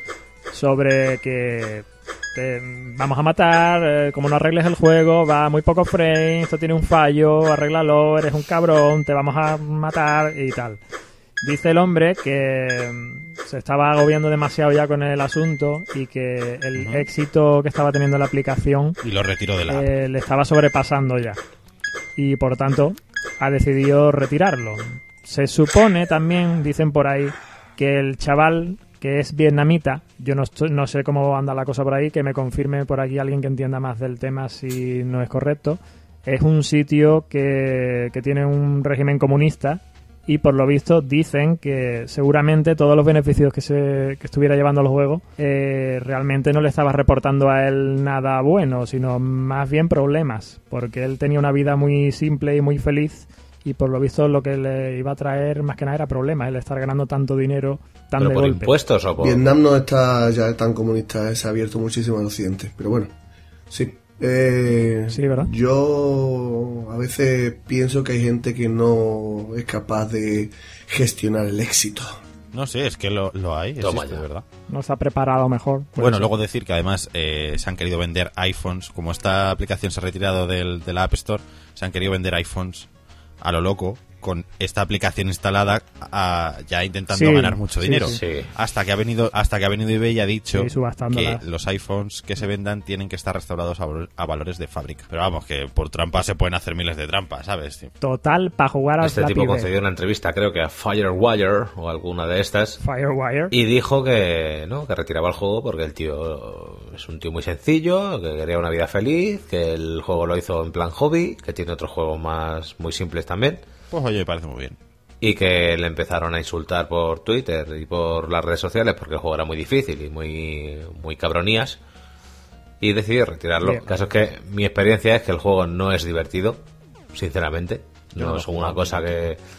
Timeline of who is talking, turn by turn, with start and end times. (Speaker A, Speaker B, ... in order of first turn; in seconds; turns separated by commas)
Speaker A: 0.5-10.8, Speaker A: 11.4-19.0, Speaker B: 16.7-17.1, Speaker B: 19.0-19.9, Speaker A: 19.7-21.4, Speaker A: 22.1-58.7, Speaker C: 58.2-59.4, Speaker D: 59.2-63.1, Speaker D: 63.7-72.2, Speaker A: 65.1-65.5, Speaker B: 72.5-74.4, Speaker C: 73.8-74.2, Speaker A: 74.7-76.3, Speaker B: 76.0-82.9, Speaker B: 83.4-97.9, Speaker A: 87.1-88.2, Speaker C: 88.1-88.5, Speaker A: 90.5-91.4, Speaker A: 98.0-99.7, Speaker C: 99.0-102.8, Speaker A: 102.8-103.5, Speaker C: 103.5-113.6, Speaker B: 113.9-114.8, Speaker C: 115.2-121.8, Speaker C: 122.8-129.4, Speaker B: 128.1-129.3